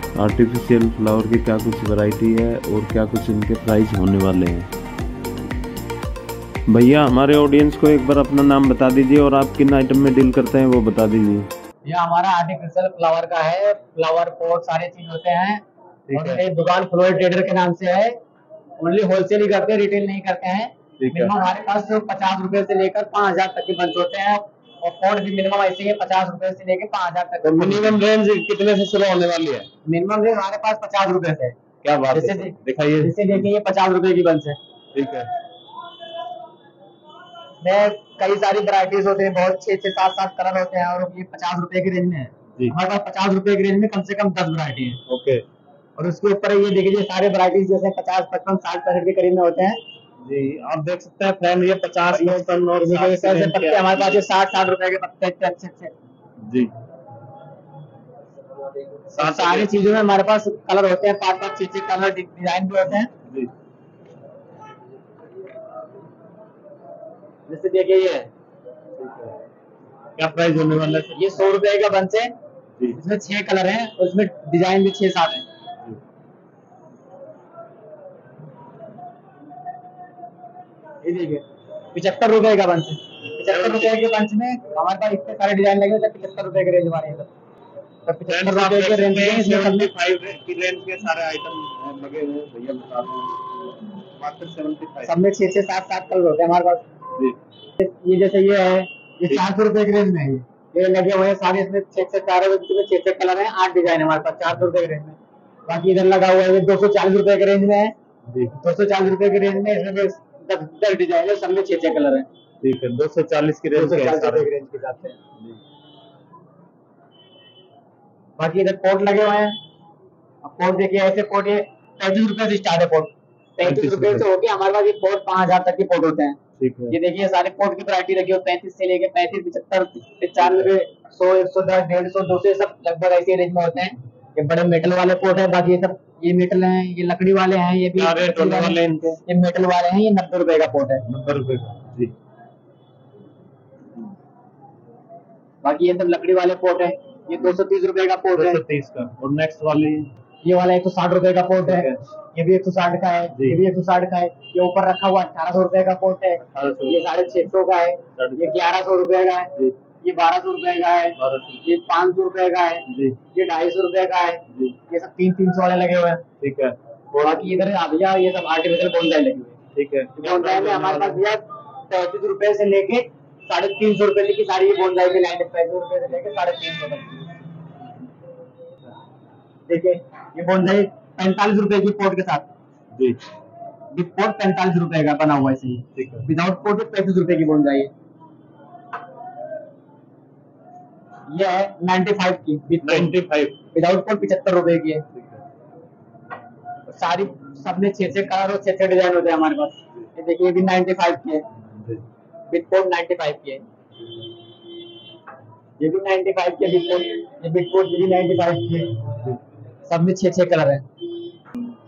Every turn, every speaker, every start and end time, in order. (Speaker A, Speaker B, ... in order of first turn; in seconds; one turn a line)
Speaker A: 0.1-4.7
Speaker A: 6.7-11.5
Speaker B: 11.8-18.2
Speaker C: 16.1-16.4
Speaker B: 18.8-28.0
Speaker C: 21.0-21.3
Speaker C: 27.4-29.7
Speaker B: 29.9-31.6
Speaker C: 31.8-33.2
Speaker B: 32.1-34.6
Speaker C: 34.9-35.3
Speaker B: 37.6-45.0
Speaker C: 45.1-45.4
Speaker B: 46.0-49.8
Speaker C: 50.2-54.2
Speaker B: 52.1-55.9
Speaker C: 56.4-56.7
Speaker C: 59.1-59.7
Speaker B: 59.2-63.1
Speaker B: 67.5-68.3
Speaker C: 69.0-69.3
Speaker C: 70.2-71.2
Speaker B: 71.2-72.3
Speaker B: 73.0-75.5
Speaker B: 81.0-87.3
Speaker C: 83.4-84.0
Speaker B: 88.1-89.9
Speaker C: 88.3-93.4
Speaker C: 94.2-95.1
Speaker B: 95.0-96.9
Speaker B: 97.8-107.9
Speaker C: 108.3-108.5
Speaker B: 108.6-112.3
Speaker C: 112.6-114.5
Speaker B: 113.7-115.2
Speaker B: 118.4-119.6
Speaker B: 120.4-126.4
Speaker C: 123.6-124.2
Speaker C: 126.6-127.0
Speaker B: 126.9-141.1
Speaker C: 137.9-139.2
Speaker C: 141.1-142.1
Speaker B: 145.6-148.6
Speaker C: 148.3-150.1
Speaker B: 150.4-159.5
Speaker C: 151.6-152.0
Speaker C: 156.5-157.0
Speaker C: 158.2-158.6
Speaker B: 160.0-166.2
Speaker C: 161.2-161.6
Speaker C: 162.9-163.2
Speaker C: 166.4-166.8
Speaker B: 167.1-169.6
Speaker C: 169.8-171.2
Speaker B: 170.2-177.3
Speaker B: 179.7-182.5
Speaker C: 182.9-183.2
Speaker B: 183.9-187.9
Speaker C: 186.0-186.2
Speaker B: 191.3-193.1
Speaker C: 192.8-193.6
Speaker B: 193.7-195.1
Speaker C: 195.2-195.4
Speaker B: 196.9-201.4
Speaker B: 202.5-203.6
Speaker B: 205.8-208.9
Speaker B: 209.9-210.9